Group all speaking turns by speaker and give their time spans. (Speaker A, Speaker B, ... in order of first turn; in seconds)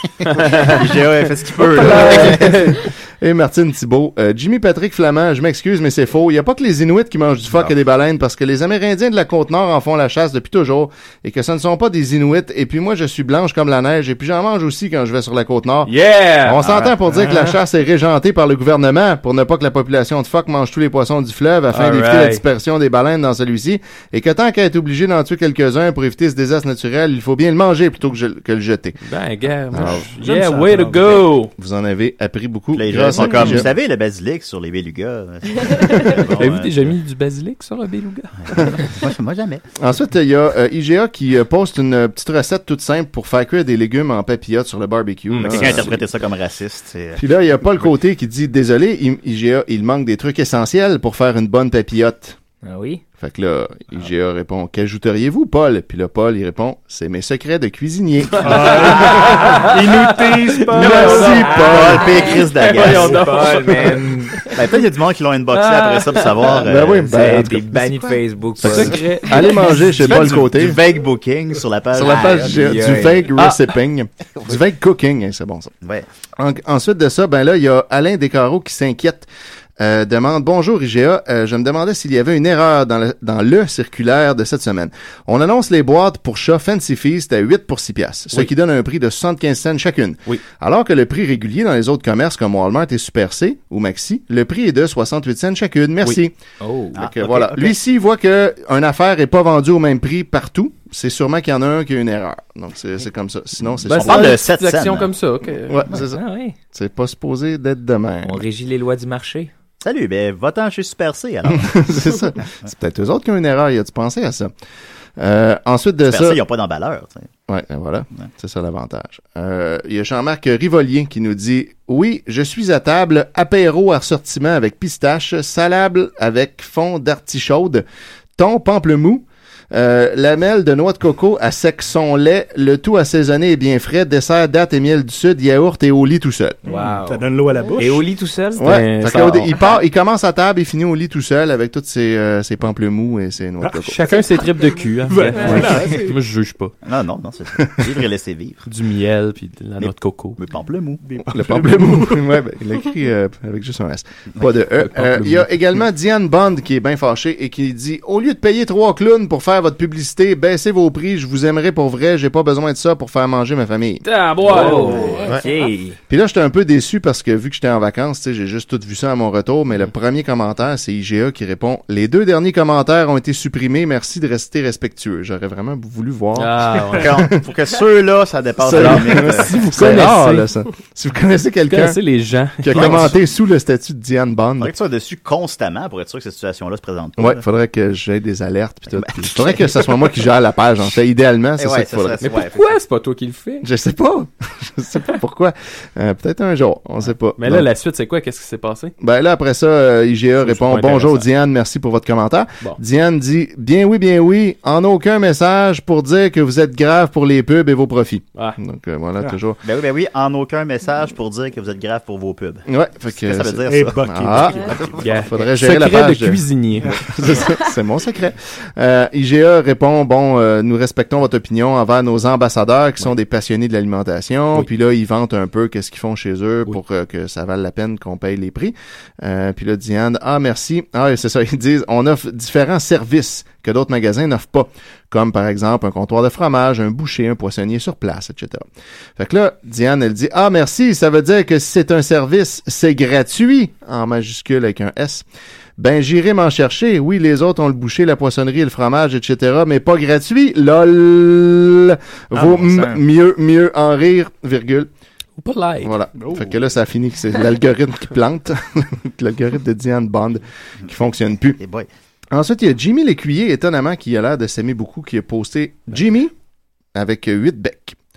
Speaker A: 0.3-2.8, 32.7-36.9, 38.4-39.6, 45.4-47.2, 61.4-63.2, 64.5-67.1, 69.9-72.7, 97.0-97.7, 103.9-105.1, 109.8-111.9, 116.0-117.3, 146.8-148.6, 149.8-151.0, 177.0-180.0, 182.7-183.2, 184.6-187.4, 189.0-189.9, 191.6-192.8, 209.6-215.1, 261.6-261.9
Speaker B: 1.7-29.0, 29.7-30.1, 31.5-33.7, 39.8-46.0, 47.2-52.4, 53.2-59.1, 60.7-62.1, 66.6-68.0, 68.6-70.8, 71.9-75.7, 76.4-79.3, 79.8-96.3, 97.0-104.3, 105.7-108.4, 111.5-114.5, 115.2-116.4, 117.5-127.8, 128.4-136.6, 138.6-144.1, 151.3-164.0, 166.1-177.2, 178.6-182.0, 182.6-184.7, 187.2-192.2, 193.6-197.7, 199.0-209.6, 212.7-238.6, 239.2-245.2, 245.8-254.9, 255.8-261.6, 262.3-266.3, 266.9-268.0
Speaker C: 1.7-2.6, 15.8-16.8, 21.7-22.4, 29.0-31.5, 36.1-38.7, 45.3-45.9, 58.4-64.0, 65.5-66.6, 68.6-70.0, 73.3-73.7, 103.8-105.8, 138.6-139.5, 143.8-146.7, 148.6-150.4, 154.8-155.4, 164.0-165.3, 176.3-177.2, 178.6-180.5, 181.7-183.1, 192.2-193.7, 197.4-198.9, 200.4-201.2, 215.0-216.9, 255.4-255.9
Speaker D: 29.9-31.3, 58.4-61.6, 136.6-138.1, 145.1-146.2, 151.1-152.3, 213.7-215.0, 216.8-217.3, 256.1-256.6
Speaker E: 52.6-53.0, 61.0-64.5, 67.1-69.0, 72.4-73.3, 96.6-97.0, 106.1-106.5, 108.2-109.5, 136.6-137.2, 137.8-138.7, 164.5-166.0, 252.3-253.0